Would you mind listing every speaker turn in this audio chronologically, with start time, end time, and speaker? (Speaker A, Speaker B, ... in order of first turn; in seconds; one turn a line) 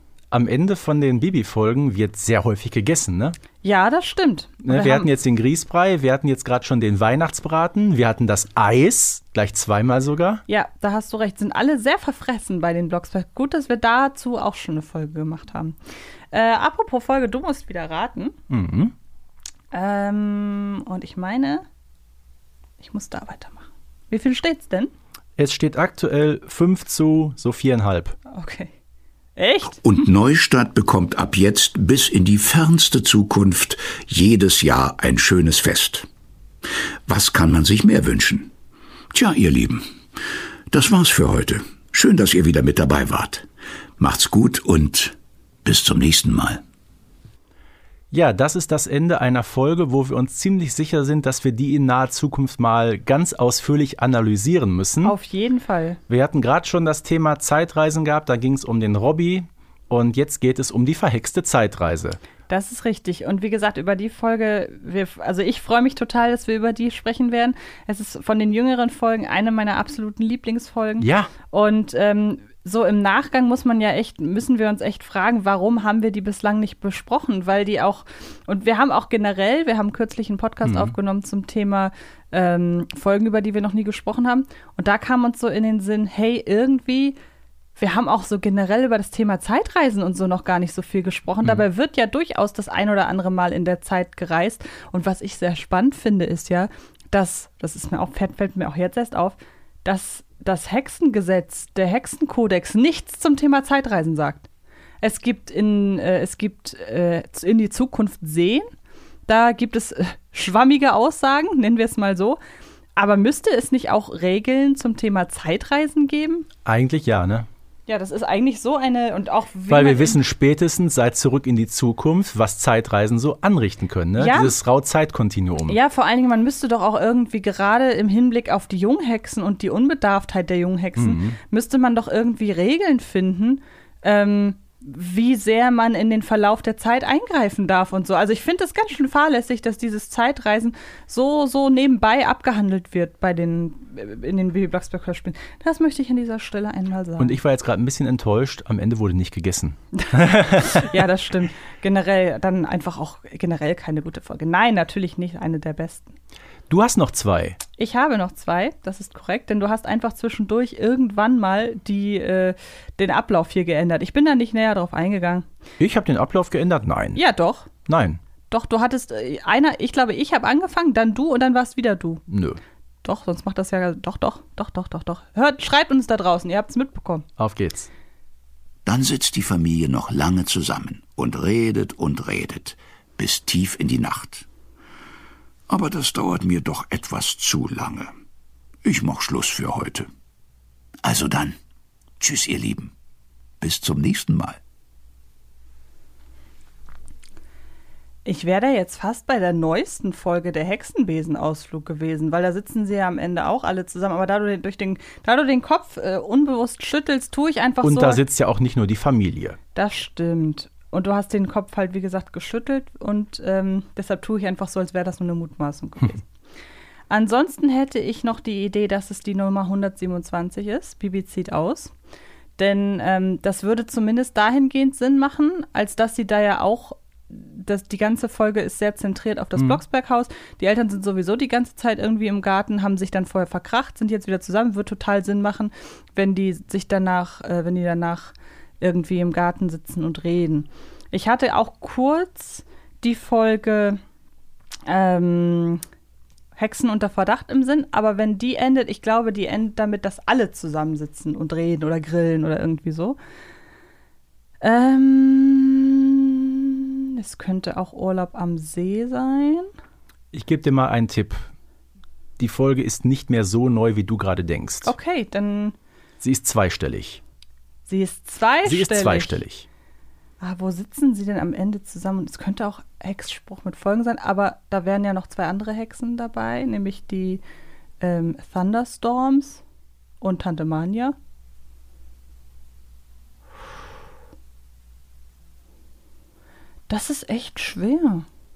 Speaker A: 0.3-3.4
Speaker B: 3.6-5.1
Speaker A: 4.7-10.4
Speaker B: 10.5-15.8
Speaker B: 16.3-18.4
Speaker A: 18.5-18.9
Speaker B: 19.7-21.6
Speaker B: 22.8-24.9
Speaker A: 25.4-28.2
Speaker B: 28.3-28.7
Speaker B: 29.4-29.8
Speaker C: 29.8-36.1
Speaker C: 37.1-38.5
Speaker C: 39.1-39.9
Speaker C: 40.7-43.5
Speaker C: 44.0-46.6
Speaker A: 48.1-55.1
Speaker B: 55.0-56.0
Speaker A: 56.1-62.2
Speaker B: 62.5-87.2
Speaker A: 71.0-71.3
Speaker A: 80.6-80.9
Speaker B: 87.8-104.5
Speaker B: 105.0-108.7
Speaker B: 109.3-112.4
Speaker B: 113.0-116.5
Speaker A: 116.7-117.5
Speaker B: 117.9-120.2
Speaker A: 119.7-125.8
Speaker B: 124.2-124.5
Speaker B: 125.7-147.4
Speaker A: 131.0-131.4
Speaker A: 147.2-150.9
Speaker B: 150.0-156.2
Speaker A: 156.7-157.6
Speaker B: 157.8-165.5
Speaker A: 165.8-167.2
Speaker B: 167.2-167.7
Speaker A: 167.9-168.2
Speaker B: 168.5-172.2
Speaker A: 172.3-172.6
Speaker B: 173.0-177.2
Speaker A: 177.4-177.9
Speaker C: 178.8-184.5
Speaker C: 185.7-188.1
Speaker C: 188.8-190.1
Speaker C: 191.0-191.6
Speaker C: 192.2-192.9
Speaker C: 193.6-194.6
Speaker B: 198.2-208.2
Speaker A: 207.8-209.6
Speaker B: 209.8-216.2
Speaker B: 217.1-221.9
Speaker B: 222.6-244.0
Speaker B: 244.9-245.8
Speaker B: 246.6-253.2
Speaker B: 254.6-259.7
Speaker A: 260.3-261.5
Speaker A: 262.4-264.9
Speaker B: 264.8-265.8
Speaker A: 266.2-267.2
Speaker B: 267.9-269.4
Speaker A: 268.6-269.7
Speaker B: 270.4-277.4
Speaker B: 278.0-279.6
Speaker B: 280.2-281.2
Speaker B: 286.9-288.3